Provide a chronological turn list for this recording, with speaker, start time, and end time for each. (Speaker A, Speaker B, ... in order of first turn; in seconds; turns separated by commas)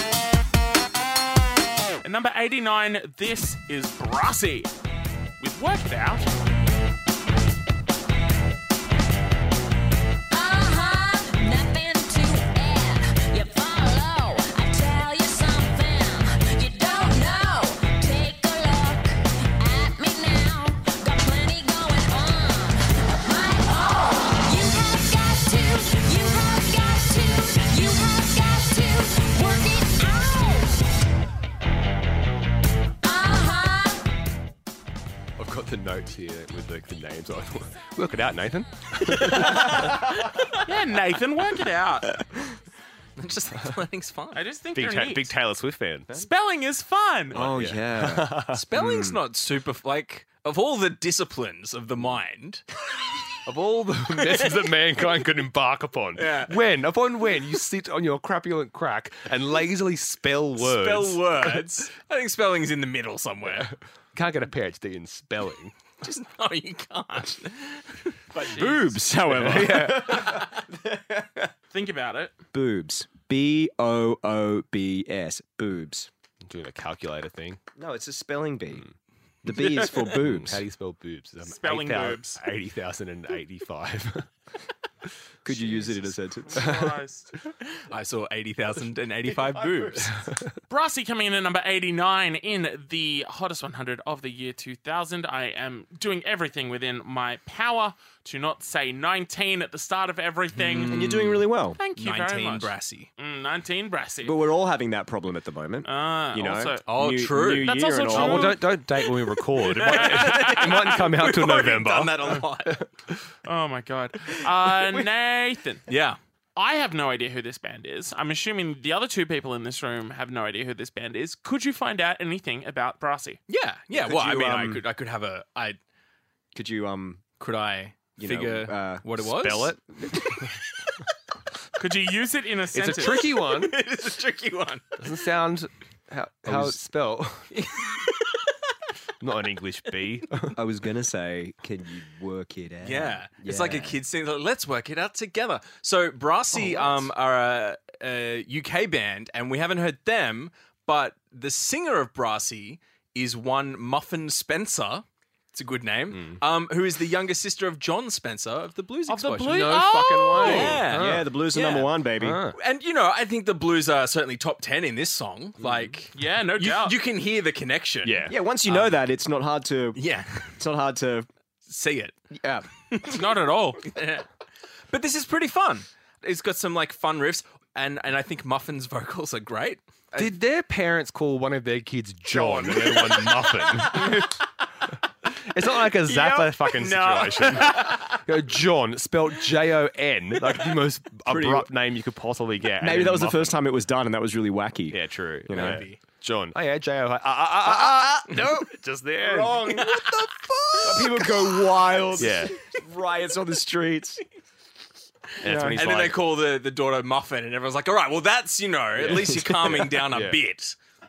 Speaker A: 2.0-4.7, Speaker A: 5.4-6.3, Speaker B: 10.3-30.8, Speaker B: 33.0-34.0, Speaker C: 35.4-40.1, Speaker A: 40.6-42.1, Speaker D: 43.2-44.4, Speaker A: 44.3-45.3, Speaker C: 44.7-46.1, Speaker A: 46.1-47.4, Speaker E: 47.3-49.2, Speaker C: 47.3-48.6, Speaker D: 48.5-52.6, Speaker C: 53.4-61.6, Speaker D: 54.2-54.6, Speaker D: 56.1-56.6, Speaker D: 60.6-63.7, Speaker C: 63.4-65.7, Speaker D: 66.0-68.1, Speaker E: 68.3-71.5, Speaker A: 68.4-69.0, Speaker C: 69.2-70.4, Speaker A: 71.7-72.3, Speaker E: 72.5-76.1, Speaker C: 76.4-77.6, Speaker E: 77.8-78.8, Speaker E: 79.4-80.6, Speaker A: 79.6-80.0, Speaker C: 80.1-84.3, Speaker A: 81.4-82.4, Speaker E: 85.4-86.7, Speaker A: 85.5-87.3, Speaker D: 87.9-90.2, Speaker C: 90.1-90.5, Speaker A: 90.7-104.4, Speaker D: 100.5-103.1, Speaker E: 100.8-101.8, Speaker E: 104.2-108.6, Speaker A: 105.8-108.6, Speaker D: 106.8-107.7, Speaker C: 108.1-112.8, Speaker D: 109.6-112.8, Speaker A: 109.8-110.8, Speaker A: 113.4-115.9, Speaker D: 115.9-116.2, Speaker A: 116.5-123.4, Speaker D: 123.5-125.8, Speaker E: 123.9-124.8, Speaker E: 126.5-127.2, Speaker D: 127.4-130.3, Speaker E: 128.2-129.0, Speaker C: 129.2-130.5, Speaker A: 131.8-133.3, Speaker C: 132.7-133.8, Speaker D: 133.0-134.9, Speaker C: 135.0-137.5, Speaker E: 136.4-136.8, Speaker D: 137.5-138.4, Speaker C: 139.2-140.6, Speaker E: 140.5-144.0, Speaker D: 142.8-159.7, Speaker E: 146.5-147.0, Speaker C: 156.1-156.4, Speaker A: 159.1-160.8, Speaker C: 159.4-161.3, Speaker D: 160.4-161.9, Speaker E: 160.4-162.4, Speaker C: 162.2-162.6, Speaker D: 162.5-168.9, Speaker C: 165.6-165.9, Speaker A: 166.1-167.0, Speaker C: 168.0-168.3, Speaker E: 168.3-170.0, Speaker D: 169.9-170.5, Speaker E: 170.6-171.3, Speaker D: 171.7-172.2, Speaker E: 172.3-172.7, Speaker D: 172.9-173.2, Speaker A: 173.1-173.9, Speaker D: 173.8-174.2, Speaker D: 174.9-180.3, Speaker C: 180.1-184.3, Speaker A: 182.3-183.4, Speaker C: 185.5-193.6, Speaker A: 186.2-188.0, Speaker D: 187.7-188.0, Speaker E: 191.2-191.7, Speaker E: 192.8-195.8, Speaker C: 194.9-199.9, Speaker D: 195.5-196.0, Speaker E: 197.6-198.7, Speaker E: 199.2-204.2, Speaker D: 199.5-201.8, Speaker C: 202.2-202.6, Speaker C: 205.4-206.2, Speaker E: 205.4-205.8, Speaker D: 205.7-210.8, Speaker C: 208.9-210.4, Speaker E: 209.0-209.8